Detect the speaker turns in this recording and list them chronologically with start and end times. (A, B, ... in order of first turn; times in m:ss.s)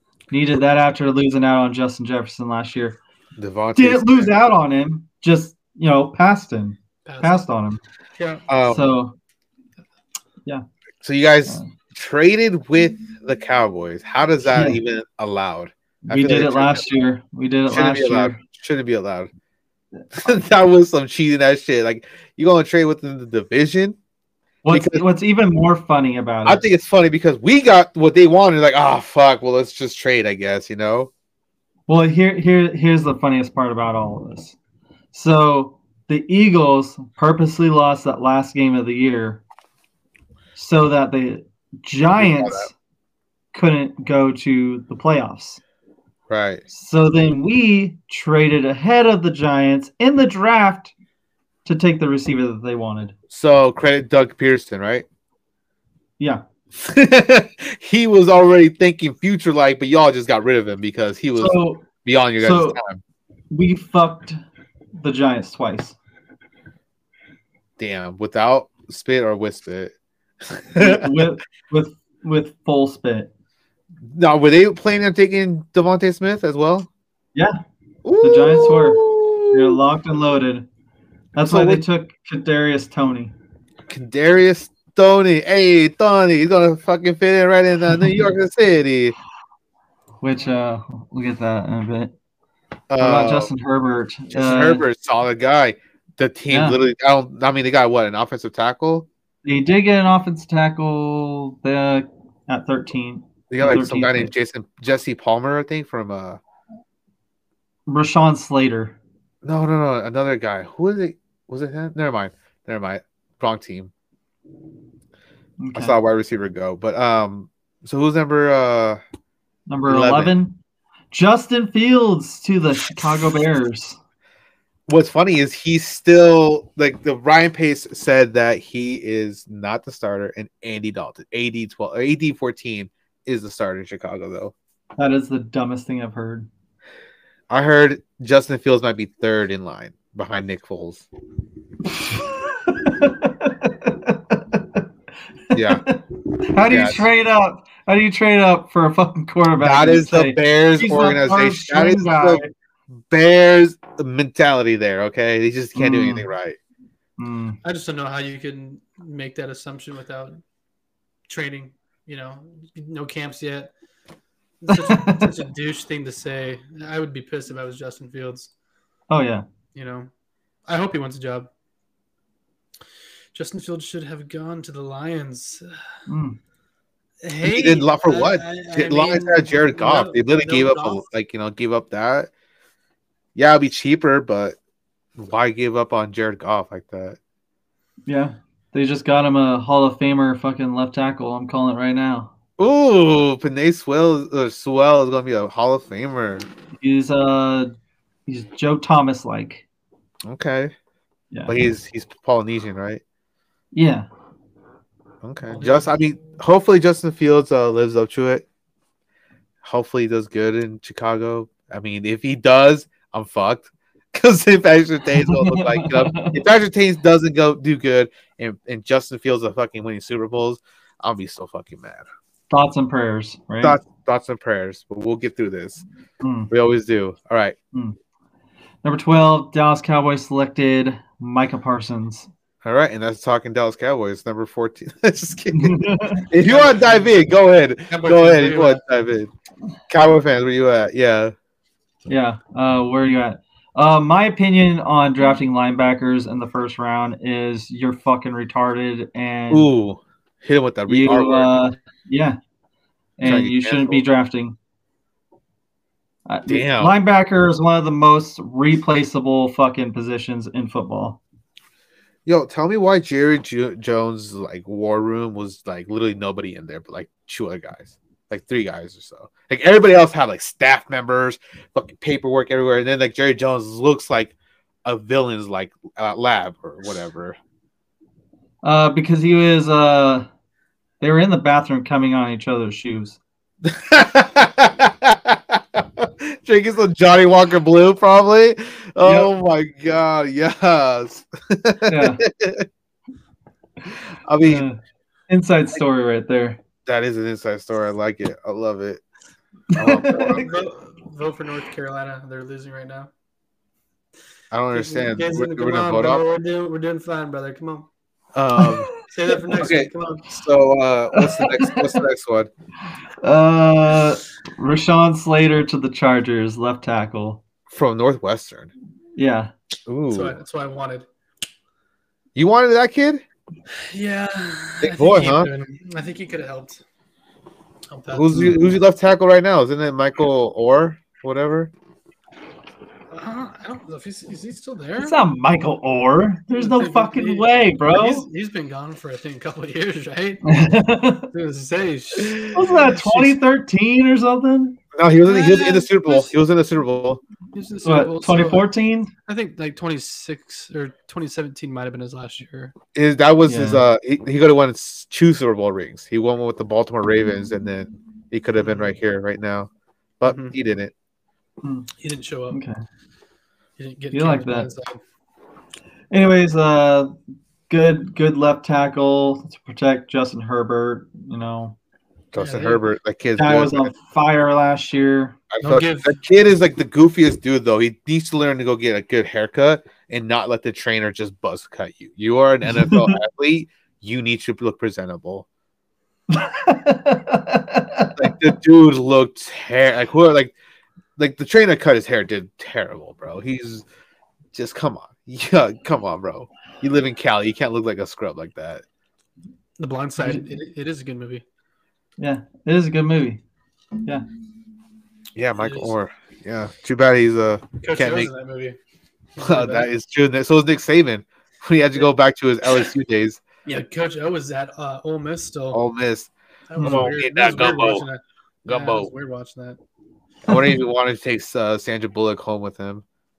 0:00.3-0:03.0 A
0:03.4-0:04.4 B
0:03.8-0:07.8 A
0:07.1-0:07.4 C
0:08.2-0:08.4 C
0:08.5-0:09.0 B
0:08.7-0:09.2 A
0:11.0-0:16.9 B
0:14.5-0:14.8 A
0:16.0-0:18.4 A
0:17.7-0:19.3 B
0:20.2-0:24.0 B
0:24.6-0:26.6 A
0:24.7-0:25.0 B
0:26.4-0:31.1 B
0:31.9-0:34.6 A
0:35.1-0:39.4 A
0:40.6-0:42.7 A
0:42.2-0:42.7 B
0:43.5-0:45.6 A
0:46.3-0:46.6 B
0:46.7-0:50.9 A
0:51.6-0:53.1 A
0:53.3-0:55.0 B
0:56.7-1:03.0 B
1:01.4-1:01.9 A
1:02.4-1:02.8 A
1:03.5-1:04.4 A
1:05.0-1:06.0 A
1:07.8-1:09.9 B
1:10.5-1:11.3 B
1:10.8-1:13.3 A
1:14.1-1:16.9 B
1:18.0-1:19.8 B
1:18.2-1:20.7 A
1:21.4-1:23.3 A
1:21.4-1:21.8 B
1:23.9-1:29.1 B
1:28.0-1:28.2 A
1:30.2-1:32.1 A
1:32.9-1:33.5 B
1:33.0-1:34.8 A
1:34.3-1:39.1 B
1:36.5-1:36.8 A
1:39.4-1:44.3 A
1:43.5-1:46.4 B
1:47.9-1:49.0 A
1:49.4-1:53.9 B
1:55.6-1:56.0 A
1:55.7-1:59.0 B
1:59.7-2:00.6 A
1:59.9-2:00.4 B
2:01.1-2:04.0 A
2:04.9-2:14.5 B
2:15.0-2:16.5 A
2:17.5-2:21.1 B
2:22.0-2:24.6 A
2:25.5-2:25.8 B
2:25.5-2:32.5 A
2:26.6-2:27.1 B
2:29.6-2:32.4 B
2:33.1-2:36.6 B
2:35.8-2:36.3 A
2:37.2-2:37.6 A
2:37.6-2:40.4 C
2:41.3-2:43.7 C
2:44.6-2:48.5 C
2:44.7-2:45.3 A
2:49.1-2:49.5 A
2:49.8-2:50.1 C
2:50.7-2:51.5 C
2:53.3-2:55.7 C
2:56.1-2:56.4 A
2:57.2-3:01.0 C
2:57.4-3:02.3 B
3:03.4-3:04.6 B
3:05.2-3:07.2 B
3:08.1-3:12.3 A
3:12.6-3:16.5 B
3:16.8-3:17.8 A
3:18.3-3:19.6 A
3:20.2-3:20.7 B
3:21.5-3:23.0 B
3:23.7-3:24.1 A
3:25.2-3:28.5 B
3:25.6-3:25.9 C
3:29.6-3:42.1 B
3:35.1-3:36.4 A
3:42.5-3:43.8 A
3:43.6-3:45.8 B
3:46.2-3:46.5 A
3:46.5-3:47.6 B
3:48.8-3:52.3 A
3:52.6-3:59.3 B
3:55.5-3:56.3 A
3:56.3-3:57.2 C
3:57.9-3:58.8 C
3:59.9-4:01.3 B
4:02.1-4:09.7 A
4:09.5-4:11.6 B
4:10.9-4:12.4 A
4:13.2-4:14.6 A
4:13.2-4:14.0 B
4:16.3-4:21.2 A
4:16.5-4:16.9 B
4:22.3-4:34.3 B
4:34.8-4:37.4 B
4:38.6-4:40.3 A
4:41.0-4:43.2 A
4:43.6-4:52.7 B
4:49.0-4:49.3 A
4:51.9-4:52.2 A
4:54.3-4:54.7 B
4:54.4-4:56.6 A
4:56.9-4:59.0 B
4:59.7-5:00.4 A
4:59.7-5:00.5 B
5:00.2-5:03.1 C
5:04.5-5:06.2 B
5:04.7-5:07.9 C
5:08.4-5:08.9 B
5:08.6-5:08.9 A
5:09.0-5:10.3 C
5:09.5-5:12.5 B
5:11.1-5:11.8 A
5:13.2-5:17.4 A
5:17.7-5:18.7 B
5:19.2-5:19.5 A
5:19.9-5:20.4 B
5:20.1-5:21.1 C
5:22.4-5:23.2 B
5:23.8-5:26.8 C
5:24.8-5:25.5 B
5:27.9-5:28.6 C
5:28.1-5:31.7 B
5:33.1-5:35.2 C
5:35.0-5:38.2 A
5:36.5-5:40.6 C
5:40.4-5:41.3 A
5:41.3-5:42.5 C
5:42.5-5:44.8 A
5:42.5-5:43.4 B
5:44.9-5:47.2 B
5:45.2-5:46.3 C
5:47.5-5:48.7 C
5:47.8-5:49.1 A
5:49.3-5:52.8 C
5:52.9-6:00.9 B
5:53.5-5:53.8 A
5:58.6-5:58.9 C
6:00.2-6:00.6 C
6:01.6-6:01.9 A
6:02.0-6:02.6 C
6:02.5-6:02.8 A
6:03.8-6:05.0 C
6:04.1-6:04.7 A
6:06.1-6:07.1 A
6:07.7-6:11.8 A
6:12.3-6:13.9 B
6:12.4-6:12.8 C
6:13.4-6:15.4 A
6:15.5-6:25.5 B
6:15.6-6:16.1 C
6:22.8-6:23.2 A
6:26.3-6:28.3 A
6:28.2-6:30.6 B
6:31.2-6:33.8 B
6:34.5-6:38.8 B
6:39.8-6:41.4 C
6:42.2-6:43.4 A
6:45.4-6:48.3 B
6:45.6-6:45.9 C
6:47.8-6:48.8 C
6:49.4-6:49.9 C
6:49.4-6:53.4 B
6:53.7-6:55.8 C
6:55.7-6:56.3 B
6:56.7-6:59.8 C
6:56.8-6:57.1 A
6:56.8-6:58.1 B
6:58.7-6:59.1 B
7:00.5-7:03.0 B